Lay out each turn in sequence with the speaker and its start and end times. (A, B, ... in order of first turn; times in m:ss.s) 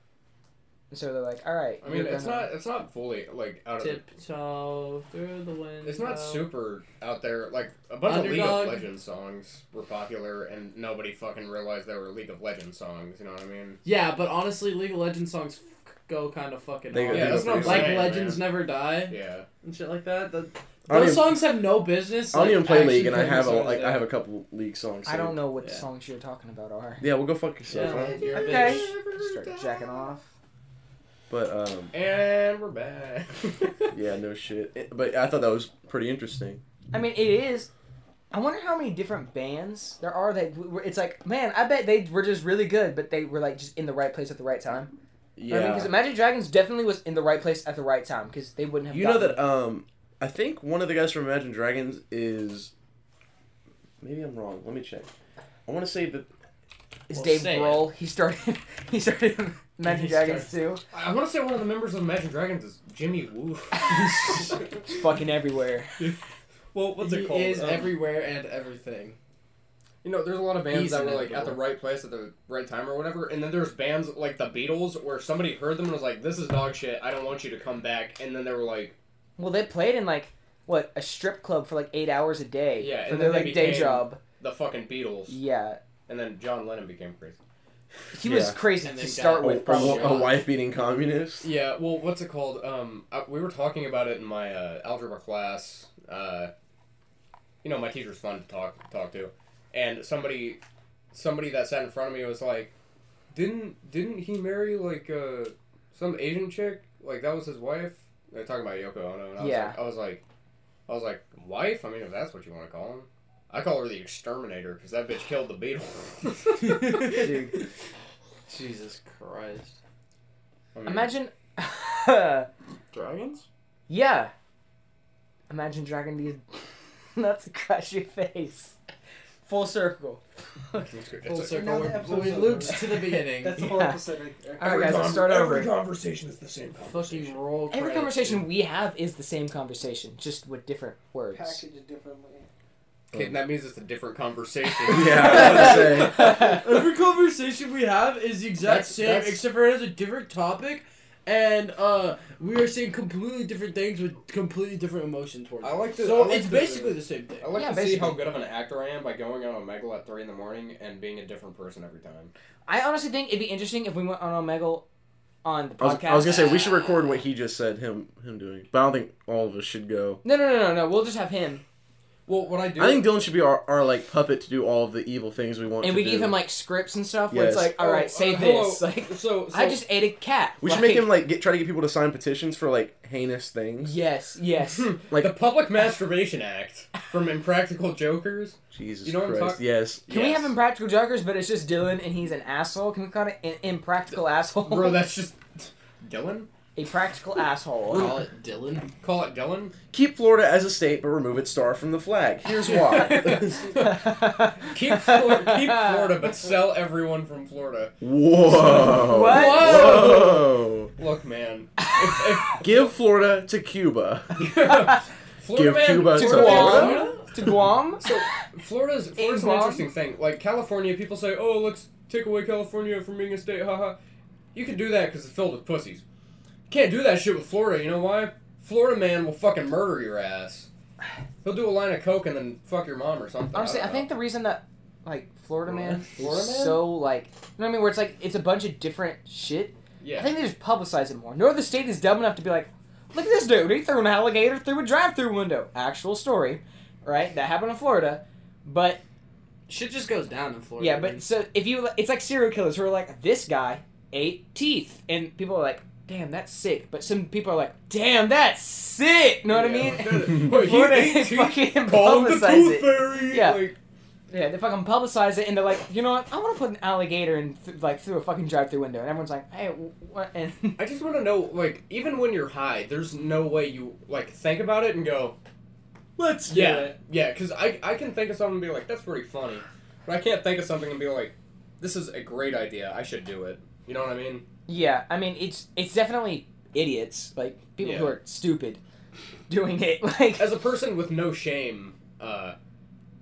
0:00.9-0:02.5 A
0:01.8-0:04.0 B
0:03.8-0:06.5 C
0:05.8-0:13.8 B
0:08.0-0:08.8 C
0:13.8-0:24.1 C
0:16.9-0:18.3 D
0:17.1-0:19.4 B
0:20.9-0:21.5 D
0:22.3-0:25.4 D
0:25.0-0:27.0 A
0:27.0-0:28.2 D
0:27.7-0:28.9 C
0:27.8-0:30.1 B
0:28.3-0:30.3 A
0:31.3-0:31.9 D
0:31.9-0:33.9 B
0:33.9-0:36.6 D
0:36.9-0:37.7 A
0:38.3-0:44.9 A
0:45.4-0:45.9 D
0:45.5-0:49.4 A
0:48.9-0:52.7 D
0:54.0-0:55.1 D
0:55.6-0:56.3 D
0:57.1-1:00.8 A
0:57.1-0:57.9 C
0:59.8-1:00.5 C
1:00.9-1:04.8 B
1:03.7-1:06.0 A
1:06.7-1:08.0 B
1:06.9-1:09.2 C
1:10.0-1:19.0 B
1:10.7-1:11.6 C
1:19.4-1:24.2 A
1:22.8-1:25.4 B
1:25.3-1:25.8 A
1:26.1-1:27.4 B
1:28.1-1:30.4 A
1:28.2-1:28.6 D
1:28.7-1:30.4 C
1:29.4-1:31.5 D
1:31.4-1:36.5 B
1:37.6-1:40.6 B
1:41.1-1:42.7 B
1:43.3-1:50.2 B
1:49.4-1:49.8 A
1:50.9-1:57.3 B
1:56.6-1:57.4 C
1:57.0-1:57.6 A
1:58.5-1:59.8 C
2:00.7-2:01.1 B
2:00.8-2:02.5 A
2:02.9-2:03.4 C
2:03.9-2:04.3 A
2:05.5-2:06.6 A
2:07.1-2:08.7 A
2:09.4-2:10.9 A
2:10.9-2:12.7 B
2:11.2-2:13.7 C
2:11.5-2:15.2 E
2:13.5-2:14.0 A
2:14.6-2:15.7 A
2:14.6-2:17.4 B
2:16.8-2:18.4 C
2:17.7-2:21.6 A
2:21.3-2:22.5 E
2:23.1-2:26.0 B
2:24.8-2:26.3 D
2:25.1-2:37.5 C
2:26.2-2:26.6 A
2:28.6-2:29.4 B
2:35.6-2:42.3 B
2:37.5-2:38.2 A
2:42.7-2:44.8 A
2:45.4-2:46.7 A
2:45.8-2:50.2 D
2:50.2-2:51.6 A
2:52.3-2:53.1 B
2:52.8-2:56.4 D
2:55.8-3:01.1 A
2:57.3-2:57.7 D
2:57.8-2:59.8 B
3:00.6-3:03.9 D
3:03.8-3:04.9 A
3:04.8-3:10.5 B
3:08.7-3:10.0 D
3:10.1-3:15.0 A
3:14.6-3:16.5 B
3:16.7-3:18.1 A
3:17.9-3:18.9 C
3:19.0-3:19.7 B
3:19.9-3:23.7 D
3:22.6-3:27.9 B
3:23.7-3:26.3 A
3:28.0-3:30.9 D
3:28.7-3:30.0 A
3:29.2-3:30.4 C
3:29.3-3:30.3 B
3:31.0-3:32.9 B
3:31.8-3:32.2 A
3:32.6-3:34.5 D
3:34.4-3:37.2 B
3:34.7-3:35.0 A
3:35.5-3:37.1 D
3:36.1-3:38.4 A
3:36.6-3:37.1 C
3:38.0-3:44.0 B
3:39.2-3:39.9 A
3:44.5-3:46.0 B
3:46.7-3:50.7 B
3:51.4-3:54.1 B
3:53.5-4:09.0 A
3:56.0-3:56.9 B
4:00.0-4:00.3 B
4:09.7-4:11.2 C
4:10.8-4:23.7 A
4:19.5-4:23.8 B
4:24.3-4:30.8 A
4:30.8-4:35.4 B
4:36.2-4:36.9 C
4:36.5-4:44.4 B
4:44.7-4:48.8 A
4:47.8-4:48.2 B
4:49.5-4:50.5 A
4:50.4-4:52.6 B